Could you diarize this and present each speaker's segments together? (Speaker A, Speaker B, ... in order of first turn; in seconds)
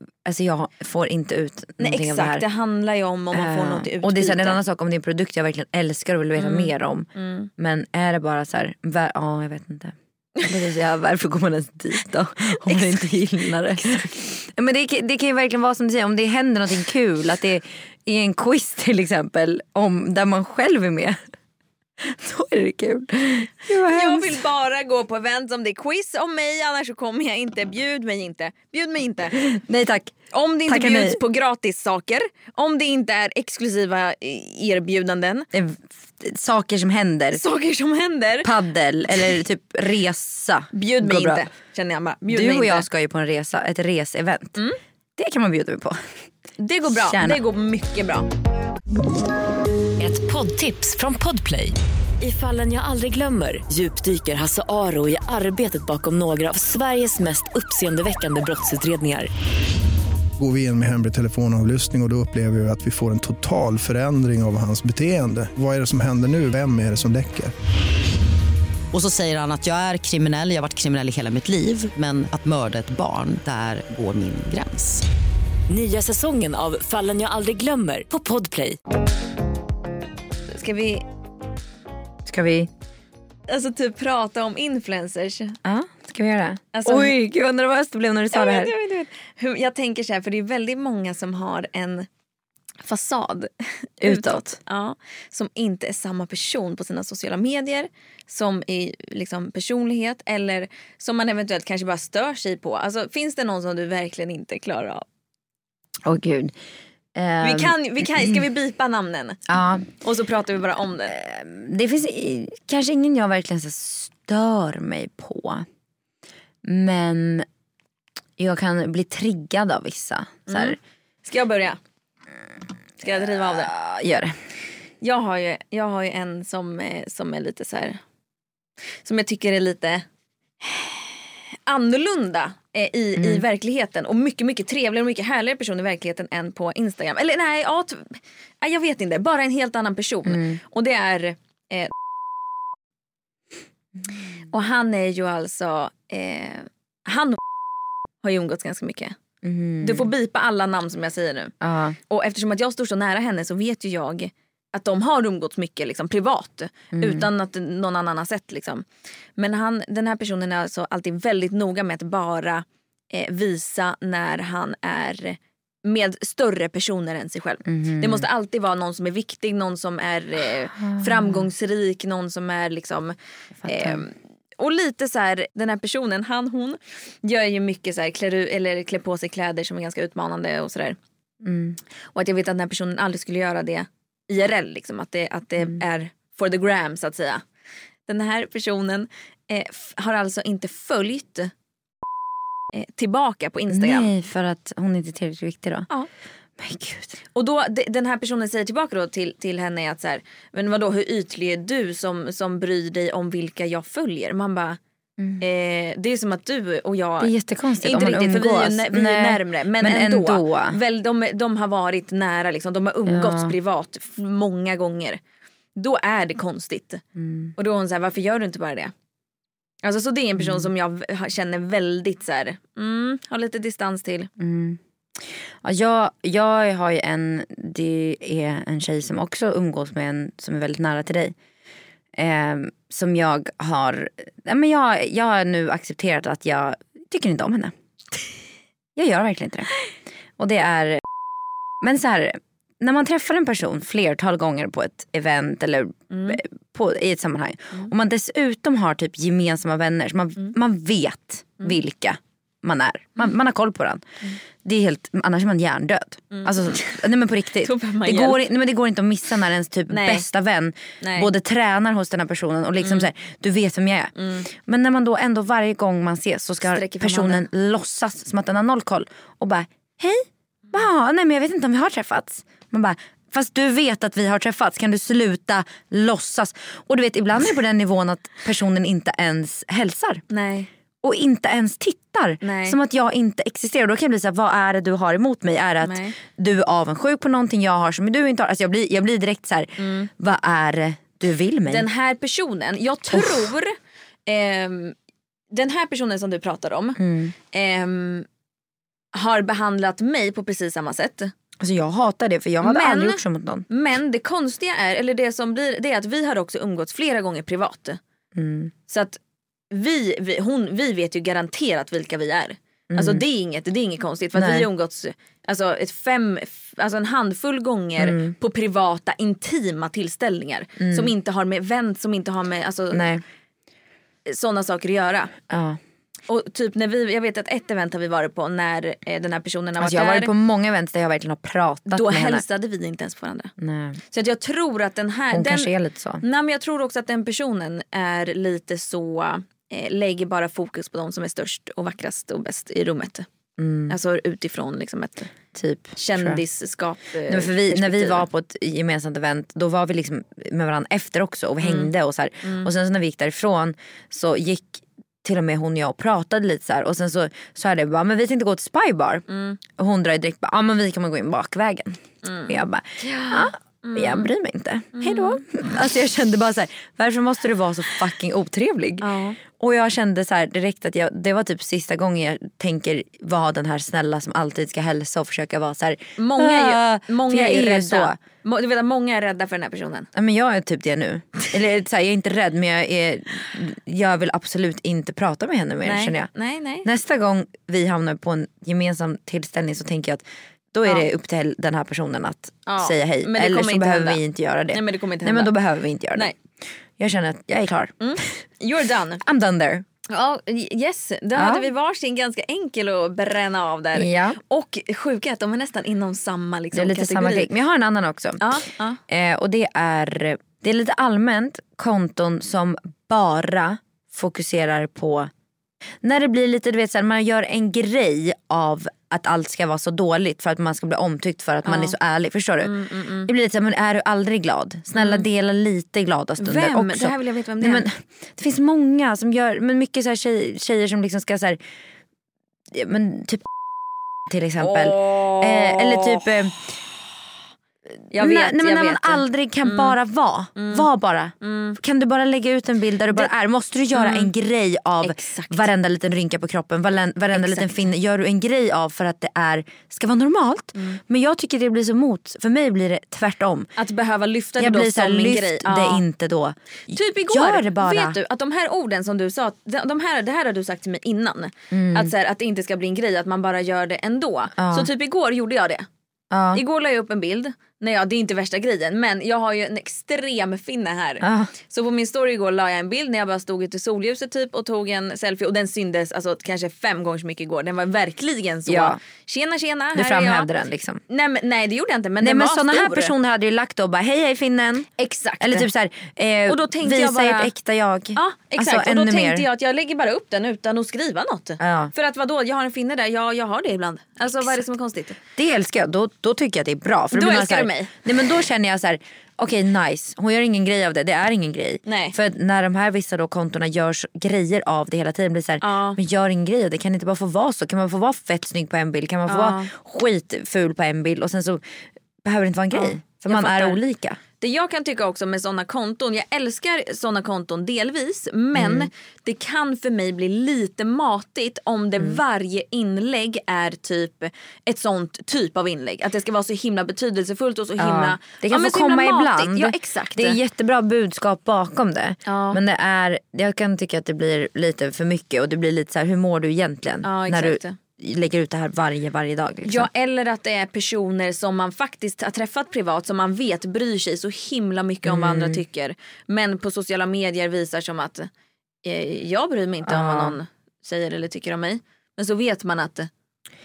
Speaker A: 0.2-2.4, 3.3-21.2, 22.0-24.4, 29.3-30.1, 30.6-31.2, 35.5-37.4, 38.4-41.5, 42.3-44.6, 45.2-46.0, 46.9-47.4, 82.2-82.7, 85.6-88.7, 94.0-94.6, 106.0-106.5, 107.1-108.4, 109.5-109.9, 111.1-115.7, 116.6-117.5, 118.4-120.8, 123.1-124.3, 133.2-133.4, 140.2-140.6, 149.4-150.1, 151.6-151.9, 156.9-157.3, 167.7-168.3, 170.8-171.4, 173.6-174.0, 181.4-181.8, 193.7-195.9, 196.6-197.2, 207.2-210.8, 213.1-213.5, 217.2-217.5, 220.4-220.7, 224.4-231.3, 232.1-237.7, 238.9-239.7, 240.4-241.0, 241.8-254.1, 254.6-280.2, 281.0-291.9, 293.1-293.5, 297.0-297.3, 301.6-303.6, 308.3-308.7, 312.9-313.2, 314.3-314.7, 318.0-318.3, 320.8-321.1, 322.9-323.2, 325.5-325.8, 329.8-332.4, 333.6-334.0, 335.3-336.2, 343.6-343.9, 345.5-346.4, 347.3-378.2, 380.1-386.3, 386.8-396.3, 397.0-397.9, 399.2-399.8, 401.3-401.7, 403.9-404.4, 406.7-415.3, 416.0-431.6, 432.7-433.4, 434.3-436.6, 438.1-453.7, 454.6-458.2, 461.7-462.1, 464.6-464.9, 466.3-466.6, 471.2-471.5, 478.6-479.0, 479.9-481.0, 482.2-489.4, 491.6-491.9, 495.4-511.6, 512.2-514.2, 518.5-518.9, 527.8-539.9, 545.0-545.6, 549.9-550.4
Speaker B: 1.8-4.6, 6.4-7.5, 12.6-13.2, 23.7-29.4, 30.3-35.5, 37.3-38.5, 40.7-42.9, 46.6-48.3, 80.5-81.0, 83.5-85.6, 86.7-87.2, 88.3-92.1, 92.8-93.5, 94.0-105.0, 107.4-109.4, 110.0-111.1, 120.5-121.8, 123.0-123.7, 125.0-128.0, 129.0-130.0, 130.6-141.9, 144.5-147.4, 148.2-149.1, 149.8-151.5, 152.1-158.8, 159.4-173.2, 173.7-181.0, 182.1-187.4, 188.1-191.5, 192.7-194.1, 197.3-204.8, 205.4-215.2, 215.8-217.0, 217.6-218.9, 219.8-224.3, 246.1-246.4, 256.3-257.0, 257.6-258.4, 259.9-260.2, 261.0-261.3, 262.8-263.1, 264.2-264.4, 266.7-267.5, 280.3-280.7, 282.4-282.8, 285.8-286.1, 289.8-290.1, 291.7-293.7, 294.2-294.9, 295.5-297.0, 297.5-298.3, 299.1-301.3, 302.6-308.0, 308.9-309.2, 309.7-323.1, 324.2-325.3, 326.3-330.3, 331.9-333.5, 334.1-343.2, 343.9-345.3, 345.9-348.2, 351.6-351.9, 352.4-352.7, 359.3-359.6, 362.2-364.3, 364.9-365.4, 369.0-369.4, 376.2-380.1, 385.8-386.9, 392.6-394.2, 394.7-395.5, 398.0-399.2, 400.1-407.5, 408.4-409.0, 421.6-421.9, 422.6-423.3, 424.9-425.2, 426.4-427.9, 434.6-436.3, 438.1-439.9, 440.6-440.9, 441.4-441.8, 443.9-444.3, 445.0-445.7, 447.3-447.8, 453.8-456.0, 456.9-465.9, 466.5-480.5, 481.1-483.1, 485.0-485.7, 486.5-487.5, 488.1-495.2, 497.1-498.0, 501.9-502.2, 505.6-506.0, 509.3-509.7, 512.7-513.8, 514.4-530.4, 532.2-532.6, 537.0-537.8, 539.6-548.3, 548.8-553.1
Speaker C: 50.0-59.3, 75.7-78.8
Speaker D: 60.4-67.5
Speaker E: 68.9-75.0